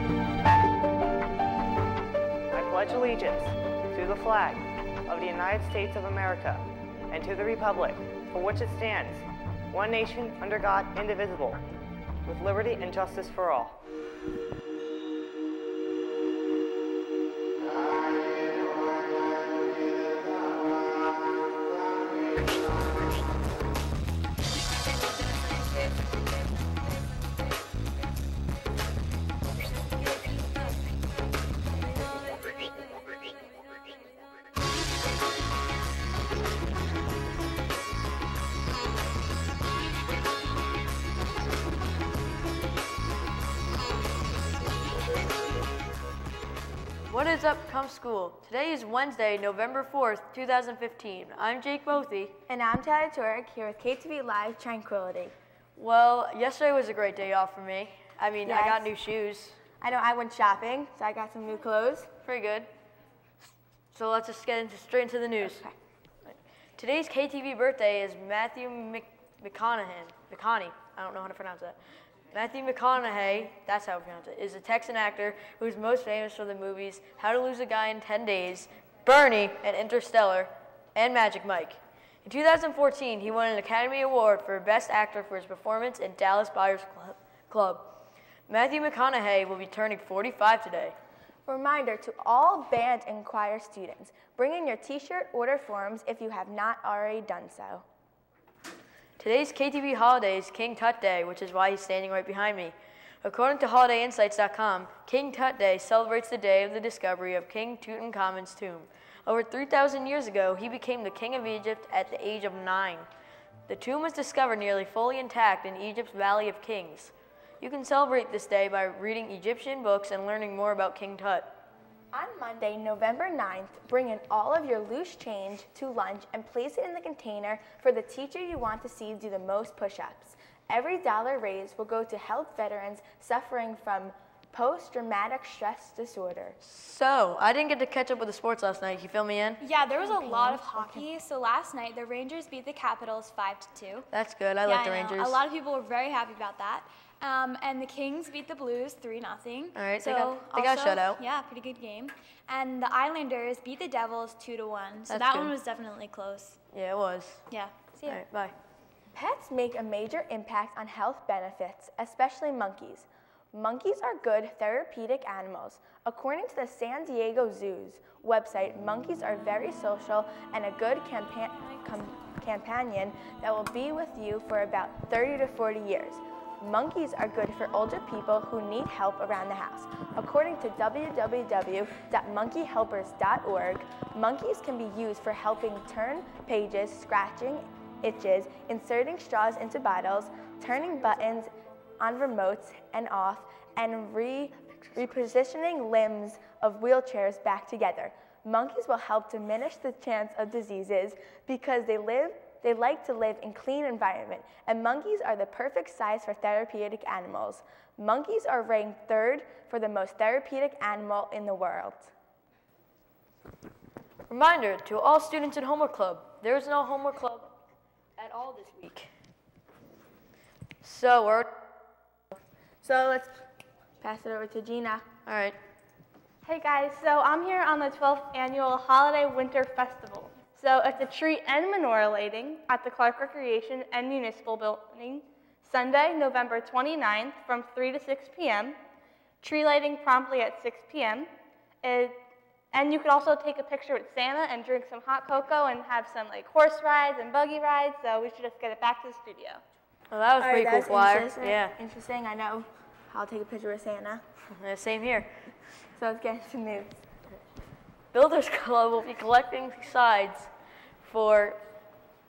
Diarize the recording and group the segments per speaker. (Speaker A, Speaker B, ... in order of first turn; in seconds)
Speaker A: 2.5-11.6, 12.3-13.8
Speaker B: 47.1-52.4, 55.8-59.6, 62.2-62.7, 63.9-65.6, 66.2-71.8, 72.3-87.9, 88.5-90.9, 99.2-113.1, 113.7-121.5, 136.6-139.6, 144.1-145.4, 149.8-151.2, 155.1-155.5, 156.7-157.4, 158.0-158.5, 214.3-217.5, 218.2-219.1, 220.8-221.5, 225.2-225.6, 250.1-251.8, 254.5-255.3, 258.1-260.5, 261.0-261.6
Speaker C: 52.5-55.3, 58.4-58.9, 59.8-62.1, 65.5-65.7, 91.5-97.8, 122.1-136.6, 139.9-141.1, 159.1-212.1, 222.8-223.4, 224.0-225.1, 250.4-254.2, 255.9-256.9
Speaker D: 139.6-144.1, 144.6-156.6, 157.5-158.2
Speaker E: 226.5-238.7, 239.4-241.2, 241.8-242.2, 242.7-249.6